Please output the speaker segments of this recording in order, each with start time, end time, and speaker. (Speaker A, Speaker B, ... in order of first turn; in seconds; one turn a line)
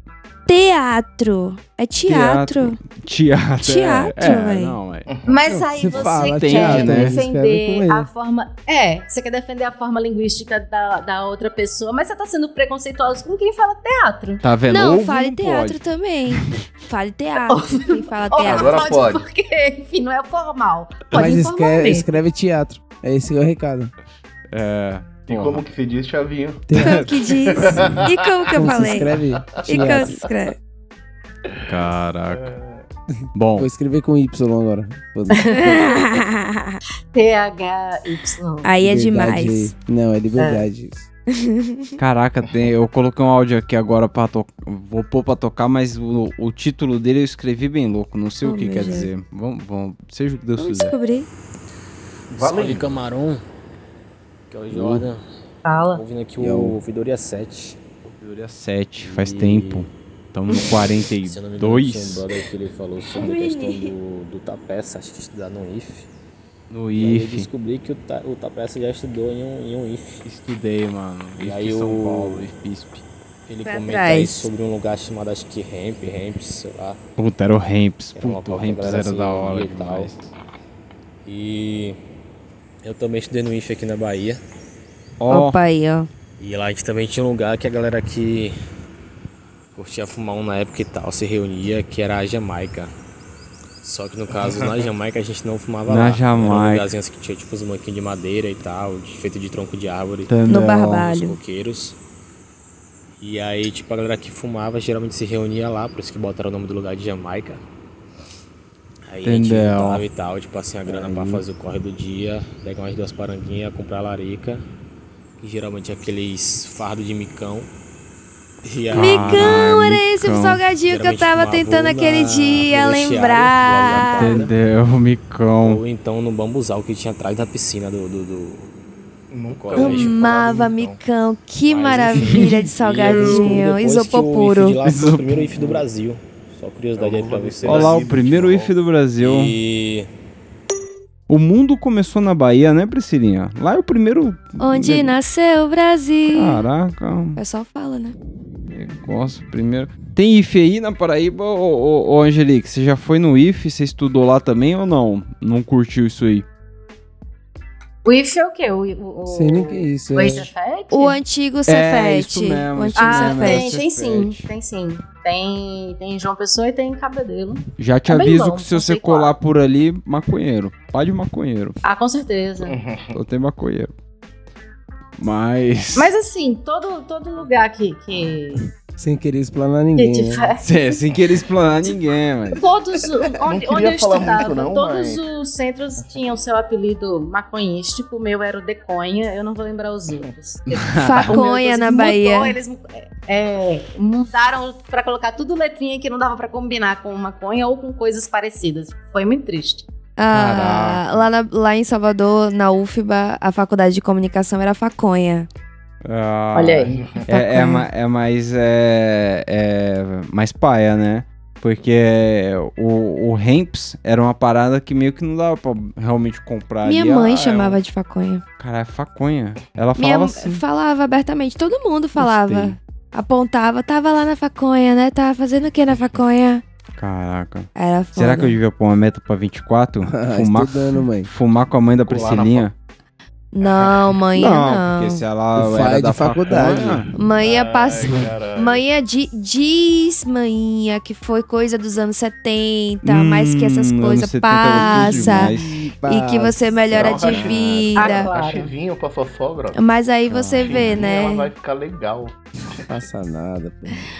Speaker A: 0.5-2.8
Speaker B: 2.0-5.1
Speaker A: 3.6-4.8
Speaker C: 5.1-5.4
Speaker D: 5.3-14.4
Speaker E: 5.5-8.1
Speaker B: 6.1-7.2
Speaker B: 14.4-15.8
Speaker A: 14.7-19.0
Speaker D: 17.4-22.1
Speaker C: 18.4-19.2
Speaker E: 21.1-23.9
Speaker B: 24.5-25.6
Speaker C: 25.3-26.7
Speaker E: 26.7-27.0
Speaker A: 26.8-30.5
Speaker C: 27.5-28.7
Speaker E: 28.6-30.2
Speaker C: 29.5-30.3
Speaker B: 31.6-32.5
Speaker C: 32.3-32.8
Speaker B: 33.3-33.7
Speaker E: 33.6-35.9
Speaker D: 35.3-35.8
Speaker A: 35.6-36.8
Speaker D: 37.1-38.7
Speaker A: 38.6-39.7
Speaker E: 38.8-41.1
Speaker D: 40.4-40.7
Speaker A: 41.4-41.9
Speaker B: 42.0-50.9
Speaker A: 48.4-49.1
Speaker A: 50.6-51.3
Speaker C: 52.4-52.9
Speaker F: 52.4-53.4
Speaker F: 54.5-55.2
Speaker E: 54.7-55.1
Speaker D: 55.6-56.0
Speaker F: 55.9-57.8
Speaker E: 56.4-56.8
Speaker B: 58.0-62.2
Speaker F: 59.0-59.9
Speaker F: 61.2-66.1
Speaker A: 63.1-63.9
Speaker B: 66.7-67.5
Speaker F: 67.0-70.1
Speaker B: 70.2-73.0
Speaker F: 71.4-72.5
Speaker F: 73.5-77.0
Speaker A: 73.6-74.5
Speaker B: 77.2-80.3
Speaker F: 78.1-80.1
Speaker F: 81.2-82.0
Speaker F: 82.8-84.4
Speaker B: 85.2-85.6
Speaker A: 85.3-86.1
Speaker F: 86.4-88.6
Speaker F: 89.8-92.9
Speaker F: 93.8-100.3
Speaker C: 94.3-94.8
Speaker B: 95.9-96.9
Speaker B: 100.3-101.1
Speaker A: 100.5-101.4
Speaker F: 101.0-101.9
Speaker F: 103.2-107.6
Speaker F: 109.1-114.6
Speaker B: 109.2-110.0
Speaker E: 110.9-111.4
Speaker F: 115.4-117.7
Speaker F: 118.6-119.7
Speaker B: 118.9-120.6
Speaker A: 118.9-124.5
Speaker F: 120.8-124.5
Speaker B: 124.1-125.8
Speaker F: 125.6-128.7
Speaker C: 129.3-131.0
Speaker F: 129.5-130.1
Speaker A: 129.7-134.8
Speaker F: 131.7-138.1
Speaker B: 134.8-135.8
Speaker C: 136.9-138.7
Speaker B: 137.6-139.5
Speaker F: 139.2-140.1
Speaker B: 141.3-145.1
Speaker A: 144.6-146.7
Speaker B: 146.3-147.4
Speaker A: 147.4-148.1
Speaker B: 148.7-156.4
Speaker D: 158.0-161.2
Speaker E: 159.3-160.5
Speaker A: 160.9-163.8
Speaker B: 161.7-164.5
Speaker D: 162.9-169.3
Speaker B: 167.8-171.8
Speaker D: 171.8-172.8
Speaker C: 172.7-173.1
Speaker B: 173.1-173.9
Speaker B: 175.2-176.1
Speaker D: 175.9-178.7
Speaker E: 178.9-180.5
Speaker D: 179.9-180.6
Speaker B: 180.6-182.6
Speaker D: 182.6-199.9
Speaker C: 183.4-185.2
Speaker B: 190.7-191.4
Speaker A: 190.9-192.6
Speaker A: 200.2-205.5
Speaker B: 200.3-201.2
Speaker B: 206.0-217.8
Speaker D: 206.5-206.9
Speaker C: 206.9-207.3
Speaker A: 207.3-207.8
Speaker A: 216.8-218.4
Speaker B: 218.6-220.6
Speaker A: 220.0-226.6
Speaker B: 222.2-222.8
Speaker B: 227.0-232.7
Speaker A: 227.8-228.6
Speaker E: 230.1-231.3
Speaker C: 232.1-232.7
Speaker A: 233.5-235.2
Speaker C: 233.6-234.2
Speaker B: 234.3-237.1
Speaker E: 235.5-237.1
Speaker A: 237.1-245.5
Speaker C: 237.2-238.8
Speaker B: 243.0-245.7
Speaker E: 244.8-247.9
Speaker A: 246.1-248.3
Speaker C: 246.9-249.8
Speaker D: 247.9-248.7
Speaker A: 249.7-251.5
Speaker B: 250.3-251.0
Speaker C: 250.5-252.3
Speaker E: 252.9-254.1